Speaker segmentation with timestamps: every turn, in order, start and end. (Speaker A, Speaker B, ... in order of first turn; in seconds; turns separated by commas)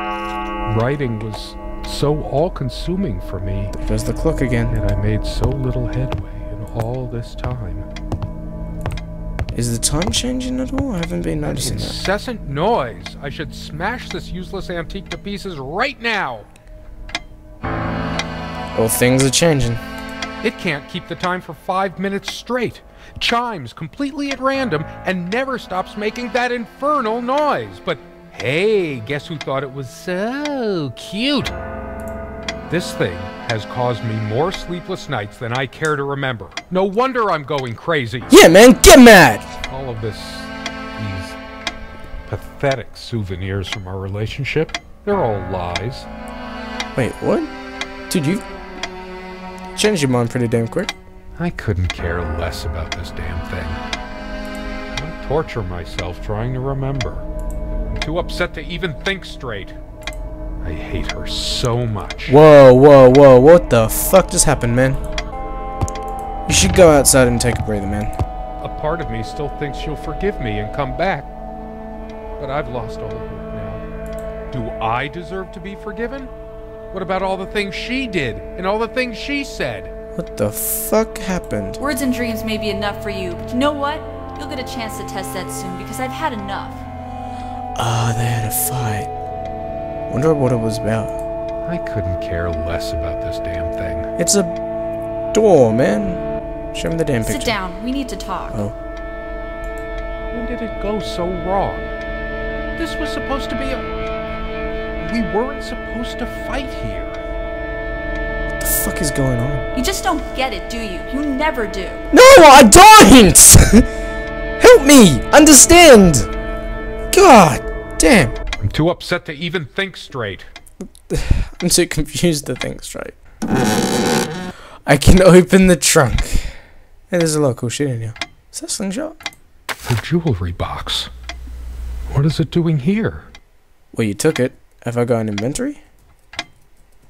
Speaker A: 0.7-3.7, Speaker B: 3.8-4.8, Speaker A: 4.7-7.9, Speaker B: 9.5-12.0, Speaker A: 11.5-16.5, Speaker B: 18.7-19.8, Speaker A: 20.4-31.5, Speaker A: 32.7-38.3, Speaker B: 38.3-39.5, Speaker A: 39.7-41.4, Speaker A: 42.3-46.1, Speaker B: 46.9-47.5, Speaker B: 48.1-48.4, Speaker B: 49.7-50.9, Speaker A: 51.4-53.8, Speaker A: 54.9-57.3, Speaker A: 57.9-59.8, Speaker A: 60.6-62.4, Speaker B: 62.3-65.0, Speaker B: 66.5-68.2, Speaker A: 68.6-71.3, Speaker A: 72.4-73.8, Speaker A: 74.5-76.3, Speaker A: 76.9-79.9, Speaker B: 80.1-81.8, Speaker C: 81.8-86.8, Speaker B: 87.8-89.1, Speaker B: 90.1-91.2, Speaker A: 91.7-94.1, Speaker B: 94.2-94.5, Speaker B: 95.3-97.6, Speaker C: 97.2-98.6, Speaker A: 100.3-101.9, Speaker A: 102.8-104.0, Speaker A: 105.0-107.2, Speaker B: 108.6-109.7, Speaker C: 109.7-112.0, Speaker B: 112.1-113.9, Speaker B: 114.6-116.3, Speaker B: 117.1-118.3, Speaker A: 118.6-120.5, Speaker B: 121.1-123.1, Speaker B: 124.8-129.2, Speaker A: 129.8-131.1, Speaker A: 132.1-133.3, Speaker B: 133.9-135.8